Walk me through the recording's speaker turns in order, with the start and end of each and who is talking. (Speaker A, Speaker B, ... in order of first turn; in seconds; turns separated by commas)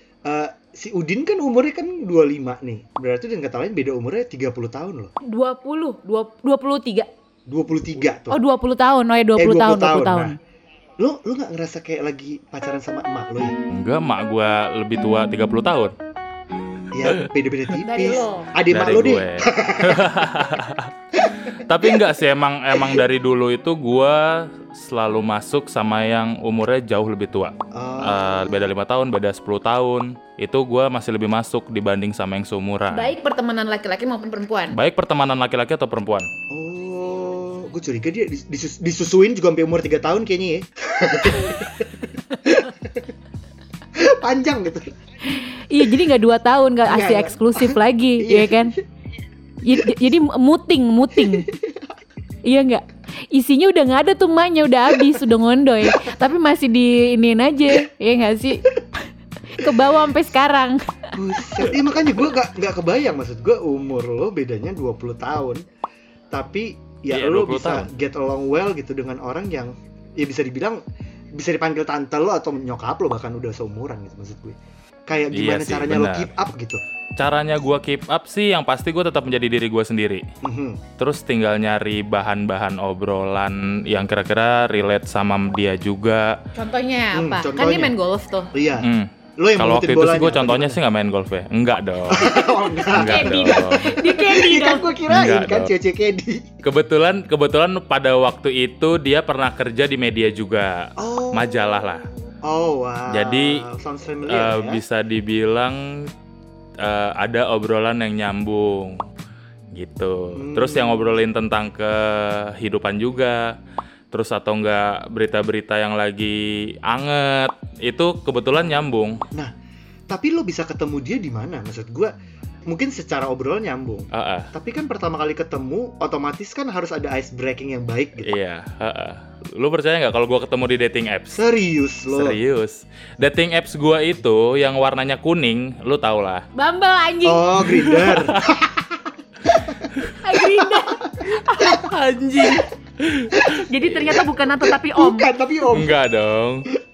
Speaker A: 0.3-5.1, Speaker B: 5.3-7.1, Speaker A: 7.5-8.4, Speaker B: 8.3-10.3, Speaker A: 9.4-10.3, Speaker A: 11.0-13.5, Speaker C: 13.7-15.9, Speaker A: 16.9-20.2, Speaker B: 17.8-18.5, Speaker C: 18.7-20.9, Speaker C: 21.4-33.1, Speaker A: 27.7-28.7, Speaker B: 32.9-34.8, Speaker C: 34.7-36.3, Speaker A: 36.5-43.0, Speaker A: 44.0-44.9, Speaker B: 45.4-48.7, Speaker A: 46.9-48.7, Speaker B: 49.6-51.5, Speaker A: 51.2-51.9, Speaker B: 52.4-58.6, Speaker B: 59.5-60.8, Speaker A: 61.1-65.6, Speaker A: 66.3-70.8, Speaker C: 67.1-67.9, Speaker A: 71.3-74.6, Speaker A: 75.1-76.8, Speaker C: 75.3-76.3, Speaker C: 77.2-80.2, Speaker A: 80.4-80.8, Speaker C: 81.0-86.3, Speaker B: 86.5-88.5, Speaker A: 87.1-88.0, Speaker A: 88.5-90.8, Speaker C: 88.8-92.3, Speaker A: 92.1-96.5, Speaker C: 92.9-94.0, Speaker B: 93.0-94.9, Speaker C: 95.1-95.7, Speaker C: 96.6-102.0, Speaker A: 101.0-101.5, Speaker A: 102.4-104.8, Speaker C: 103.1-103.5, Speaker C: 104.3-106.1, Speaker C: 106.8-109.0, Speaker C: 109.7-113.4, Speaker A: 110.3-111.2, Speaker C: 114.1-119.2, Speaker A: 120.1-122.1, Speaker A: 122.7-128.3, Speaker C: 124.1-124.5, Speaker C: 128.2-131.4, Speaker A: 131.3-132.4, Speaker C: 132.1-136.4, Speaker B: 136.6-137.5, Speaker A: 137.2-139.9, Speaker C: 137.7-138.6, Speaker B: 140.2-142.6, Speaker A: 140.5-141.2, Speaker C: 141.6-144.1, Speaker A: 143.3-146.0, Speaker B: 143.6-145.3, Speaker C: 145.7-146.7